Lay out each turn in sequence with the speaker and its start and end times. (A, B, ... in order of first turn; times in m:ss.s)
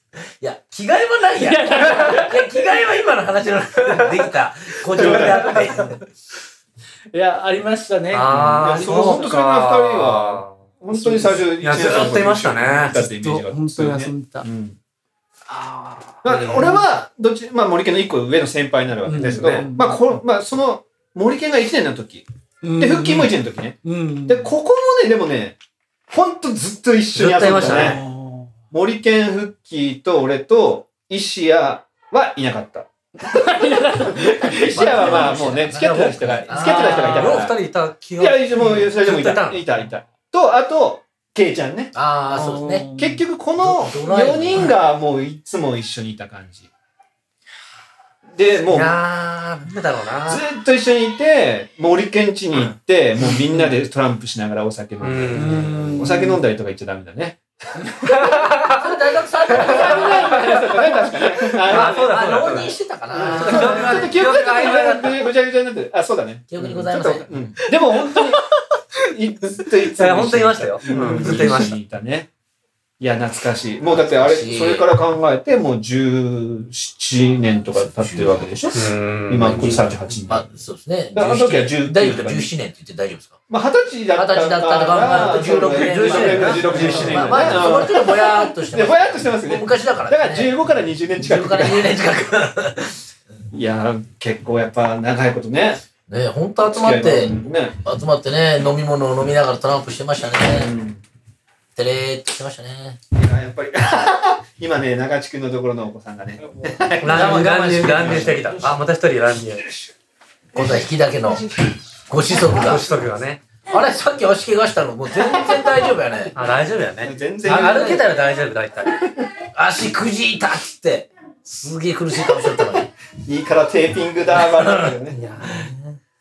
0:00.4-0:06.0 A
0:01.4-0:02.6 B
0:04.9-0:05.8 C
0:07.1-0:09.3 B
0:08.1-0:10.6 D
0:08.3-0:14.8 C
0:10.9-0:11.5 B
0:11.6-0:13.0 D
0:12.9-0:14.5 B
0:16.2-0:16.8 D
0:16.2-0:22.3 C
0:19.0-0:20.1 B
0:19.2-0:19.6 D
0:22.6-0:24.5 B
0:22.8-0:25.6 C
0:26.1-0:28.0 C
0:27.2-0:28.0 D
0:27.5-0:28.5 B
0:27.5-0:27.8 A
0:28.7-0:32.9 C
0:33.2-0:35.4 B
0:34.1-0:37.6 C
0:34.7-0:37.5 A
0:35.9-0:39.7 D
0:38.2-0:41.9 C
0:41.9-0:42.9 A
0:42.3-0:43.2 B
0:43.0-0:46.7 C
0:43.6-0:44.7 A
0:48.3-0:49.0 C
0:48.7-0:50.4 D
0:50.3-0:57.4 C
0:55.0-0:55.9 D
0:55.3-0:56.4 B
0:58.1-0:58.8 D
0:58.7-1:00.8 A
0:59.5-1:08.4 C
0:59.5-1:00.6 D
1:01.6-1:05.2 D
1:01.6-1:04.2 A
1:03.5-1:03.9 B
1:06.5-1:07.6 A
1:09.0-1:12.3 C
1:10.0-1:11.8 D
1:10.9-1:11.2 B
1:11.2-1:11.6 A
1:13.0-1:20.5 C
1:13.9-1:14.9 A
1:18.0-1:18.3 A
1:18.7-1:19.9 D
1:19.5-1:23.4 A
1:21.1-1:22.5 C
1:23.5-1:32.0 C
1:24.2-1:30.5 A
1:25.1-1:28.0 D
1:26.5-1:27.3 B
1:31.2-1:33.0 A
1:33.5-1:35.8 C
1:36.1-1:40.7 A
1:36.7-1:37.8 C
1:40.5-1:41.0 C
1:41.8-1:43.0 A
1:43.1-1:48.4 C
1:47.0-1:49.7 D
1:47.1-1:48.8 A
1:50.5-1:51.5 A
1:52.1-1:53.0 A
1:52.4-1:53.4 D
1:53.7-1:56.3 A
1:56.4-1:59.0 D
1:57.0-1:58.1 C
1:57.4-1:58.1 A
1:59.5-2:02.9 A
2:03.3-2:05.2 C
2:04.4-2:06.0 A
2:05.1-2:05.7 D